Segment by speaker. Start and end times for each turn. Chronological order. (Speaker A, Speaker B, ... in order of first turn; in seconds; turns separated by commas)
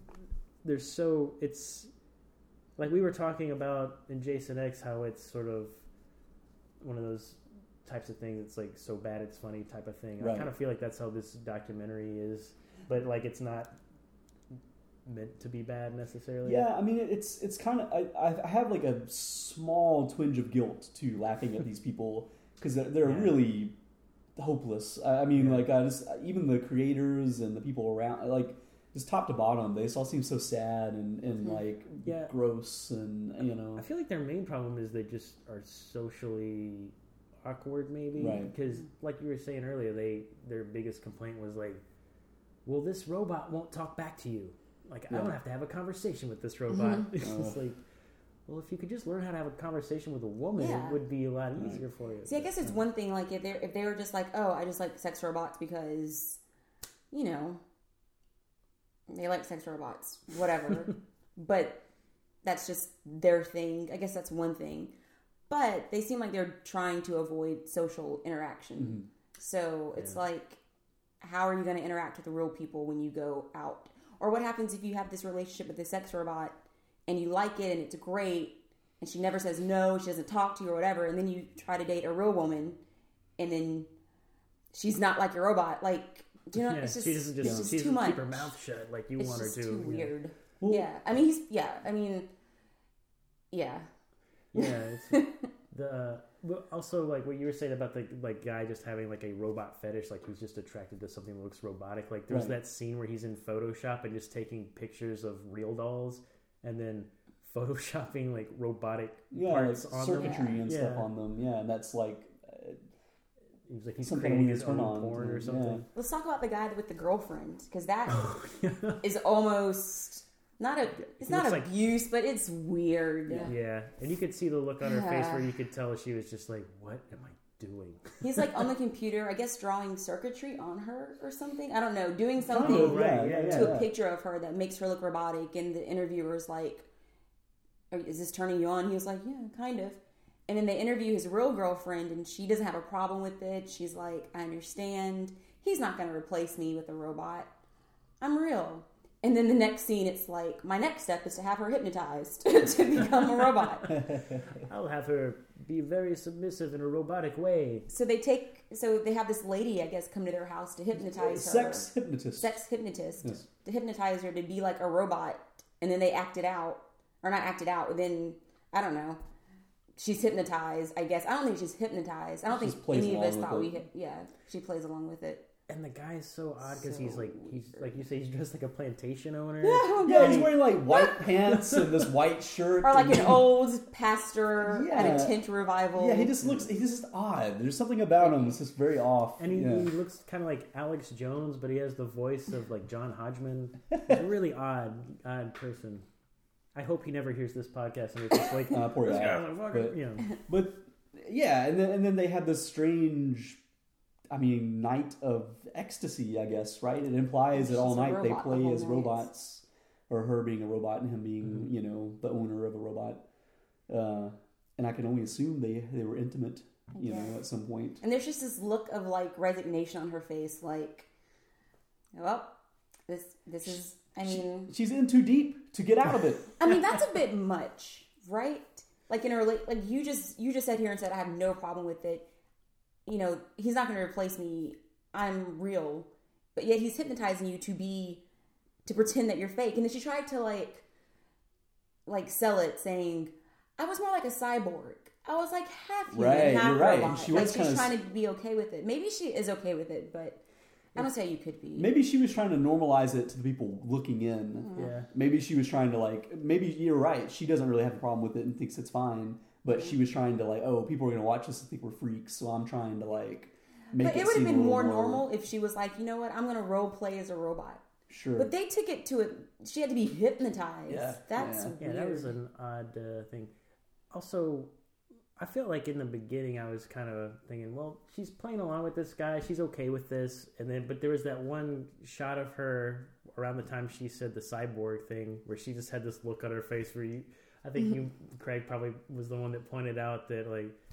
Speaker A: 0.6-1.9, Speaker A: 2.8-5.8, Speaker A: 6.8-13.7, Speaker B: 10.2-10.5, Speaker A: 15.1-16.6, Speaker B: 16.4-23.8, Speaker A: 23.0-23.4, Speaker B: 24.4-33.9, Speaker A: 25.4-25.7, Speaker A: 32.0-32.3, Speaker A: 33.8-41.8, Speaker B: 38.2-38.5, Speaker A: 42.7-47.8, Speaker B: 47.2-47.6, Speaker A: 48.5-52.5, Speaker C: 50.6-51.0, Speaker B: 51.5-51.8, Speaker C: 52.3-56.4, Speaker C: 57.1-57.6, Speaker C: 59.1-61.8, Speaker C: 62.4-64.9, Speaker C: 65.5-70.6, Speaker B: 68.8-69.0, Speaker C: 71.2-76.5, Speaker C: 77.1-82.8, Speaker C: 83.4-83.9, Speaker C: 84.7-88.5, Speaker A: 86.5-90.1, Speaker B: 87.4-87.7, Speaker C: 89.2-92.3, Speaker B: 90.6-90.9, Speaker C: 93.5-93.9, Speaker A: 94.5-111.1, Speaker B: 102.3-102.6, Speaker B: 109.3-112.8, Speaker C: 110.1-110.6, Speaker A: 113.7-115.8, Speaker B: 114.0-115.8, Speaker C: 116.0-118.3, Speaker A: 118.1-119.0, Speaker C: 119.0-123.5, Speaker A: 121.0-121.7, Speaker B: 123.3-123.5, Speaker A: 123.5-128.6, Speaker C: 124.8-125.5, Speaker C: 128.2-136.9, Speaker A: 132.4-133.8, Speaker B: 132.5-133.9, Speaker C: 137.9-147.5, Speaker C: 148.2-154.0, Speaker B: 154.1-154.4, Speaker A: 154.6-157.9, Speaker C: 157.9-169.2, Speaker B: 160.9-162.6, Speaker C: 170.0-175.4, Speaker B: 172.5-173.8, Speaker A: 175.7-180.8, Speaker C: 176.7-177.9, Speaker C: 179.6-180.5, Speaker B: 180.1-183.5, Speaker A: 181.3-182.2, Speaker C: 182.8-186.4, Speaker B: 184.6-189.9, Speaker C: 188.2-188.5, Speaker A: 189.4-196.1, Speaker A: 196.8-200.4, Speaker B: 198.7-203.6, Speaker B: 204.3-213.2, Speaker C: 207.5-209.3, Speaker B: 213.9-218.0, Speaker C: 216.9-217.4, Speaker C: 218.0-221.1, Speaker C: 222.2-222.5, Speaker C: 223.1-224.7, Speaker B: 224.2-226.5, Speaker C: 226.6-232.2, Speaker C: 233.1-238.2, Speaker C: 238.8-240.8, Speaker C: 242.1-250.4, Speaker B: 246.1-248.0, Speaker C: 250.9-251.9, Speaker B: 251.8-265.3, Speaker A: 254.8-255.1, Speaker C: 263.9-267.8, Speaker B: 268.1-268.5, Speaker C: 268.4-272.3, Speaker B: 270.9-271.7, Speaker A: 271.8-273.5, Speaker A: 274.1-274.7, Speaker A: 275.4-290.8